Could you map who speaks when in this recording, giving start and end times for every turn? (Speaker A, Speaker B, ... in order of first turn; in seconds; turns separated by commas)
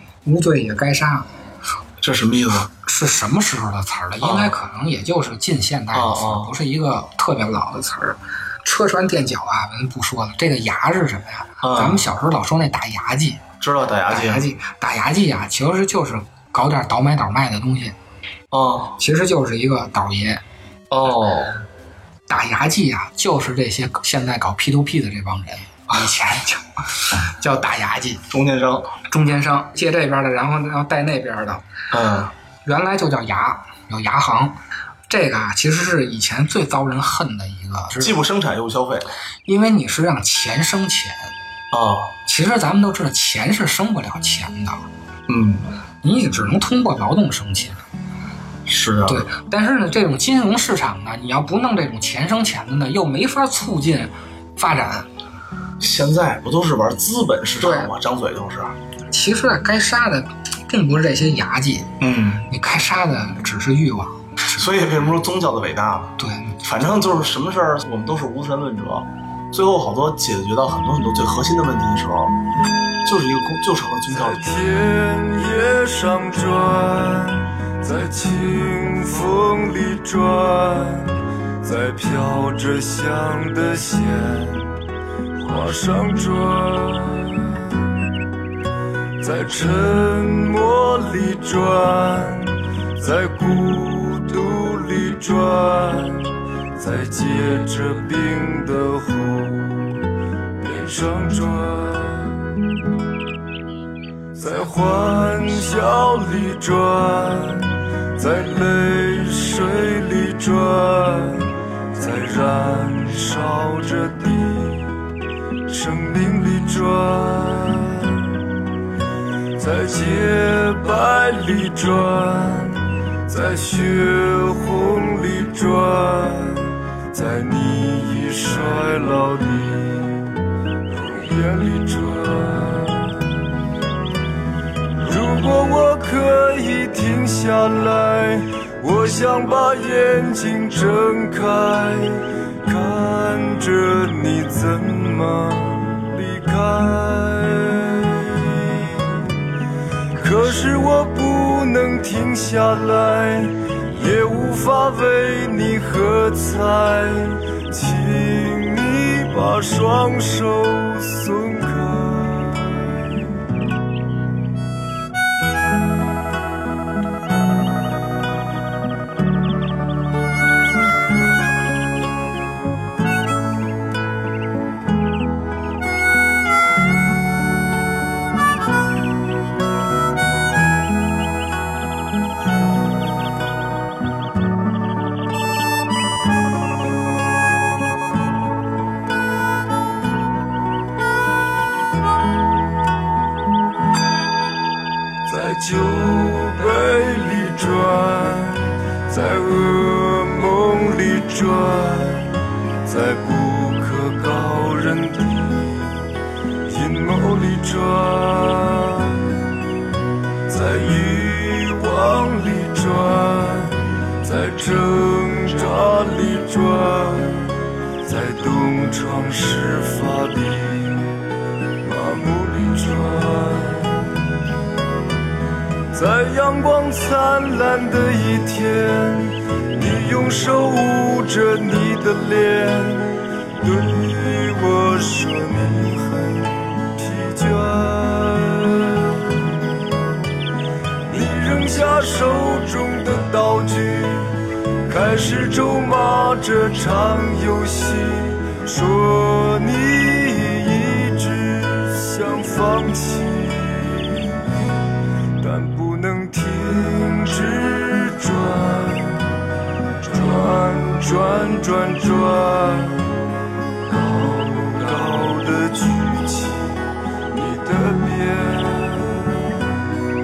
Speaker A: 0.2-1.3, Speaker B: 2.0-2.7, Speaker A: 2.8-13.4, Speaker B: 4.2-4.5, Speaker B: 5.9-6.5, Speaker B: 11.6-12.1, Speaker B: 13.6-14.4, Speaker A: 14.1-17.9, Speaker B: 18.5-19.0, Speaker A: 19.0-20.4, Speaker B: 20.9-21.6, Speaker A: 22.3-28.2, Speaker B: 28.3-28.9, Speaker A: 29.1-31.6, Speaker B: 31.9-32.3, Speaker A: 32.6-38.2, Speaker B: 38.0-39.1, Speaker A: 39.5-41.3, Speaker B: 41.7-42.1, Speaker A: 42.2-44.8, Speaker B: 45.3-45.7, Speaker A: 46.0-47.8, Speaker B: 48.6-49.2, Speaker A: 49.1-55.1, Speaker B: 55.8-58.7, Speaker A: 57.6-57.9, Speaker A: 59.1-61.9, Speaker B: 62.0-62.5, Speaker A: 62.5-64.6, Speaker B: 64.5-72.3, Speaker A: 66.2-66.6, Speaker B: 73.0-74.4, Speaker C: 74.1-84.8, Speaker C: 85.3-87.9, Speaker C: 89.2-100.1, Speaker C: 100.6-102.5, Speaker C: 104.3-115.0, Speaker C: 115.7-118.6, Speaker C: 119.5-133.4, Speaker C: 134.9-149.3, Speaker C: 150.1-163.3, Speaker C: 195.2-206.1, Speaker C: 206.6-209.4, Speaker C: 210.5-221.2, Speaker C: 221.8-224.3, Speaker C: 225.9-239.8, Speaker C: 241.1-254.7, Speaker C: 255.4-259.4, Speaker C: 260.0-263.2, Speaker C: 263.8-269.8